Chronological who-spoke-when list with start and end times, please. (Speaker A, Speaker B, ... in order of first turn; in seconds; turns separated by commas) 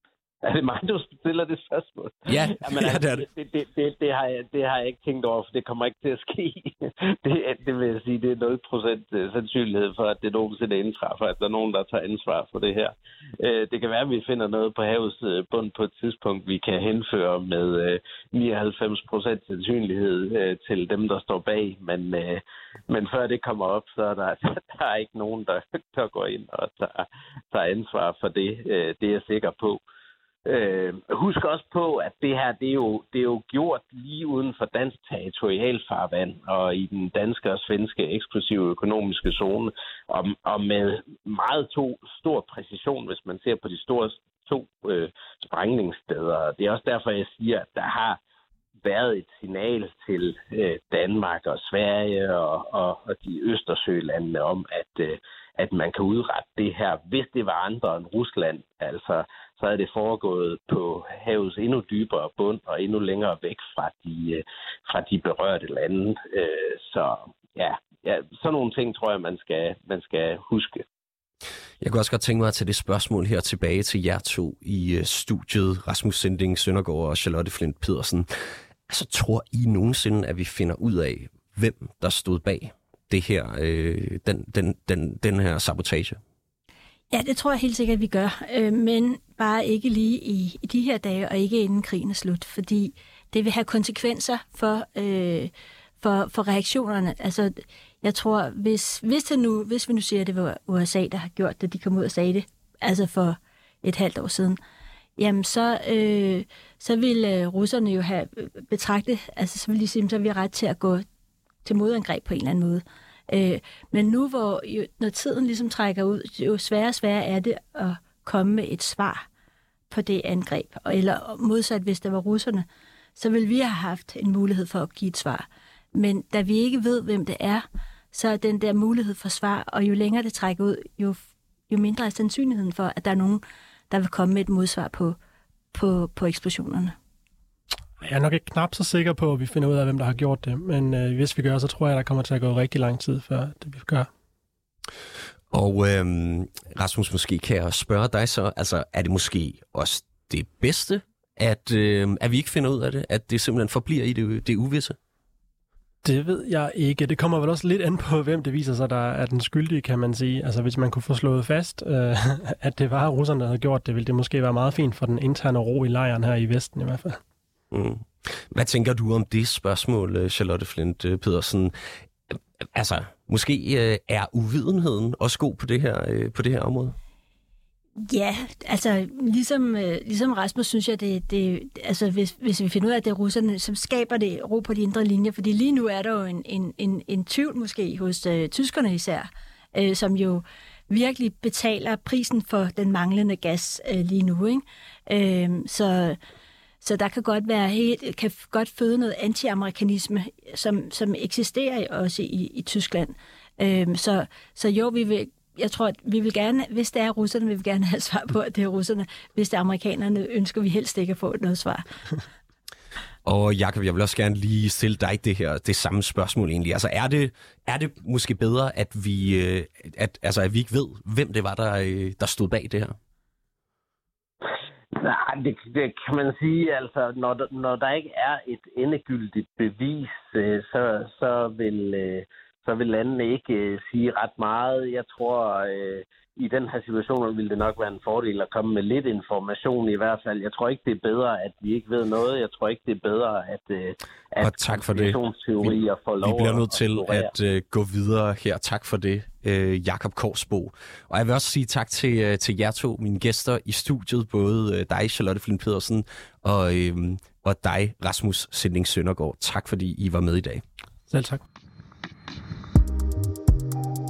Speaker A: 0.4-29.8, Speaker B: 2.3-3.3, Speaker A: 30.4-48.2, Speaker A: 48.8-70.8, Speaker B: 71.8-78.3, Speaker B: 78.9-86.2, Speaker C: 87.1-104.6, Speaker C: 105.2-111.0, Speaker C: 111.7-119.3, Speaker C: 119.9-135.2, Speaker C: 135.7-136.9, Speaker D: 138.0-144.1, Speaker B: 145.5-155.0, Speaker D: 156.0-167.2, Speaker B: 167.7-171.7, Speaker B: 172.3-176.9, Speaker C: 178.0-196.2, Speaker C: 196.8-211.8, Speaker B: 213.2-223.0, Speaker A: 224.9-247.3, Speaker B: 244.4-260.6, Speaker D: 261.1-261.4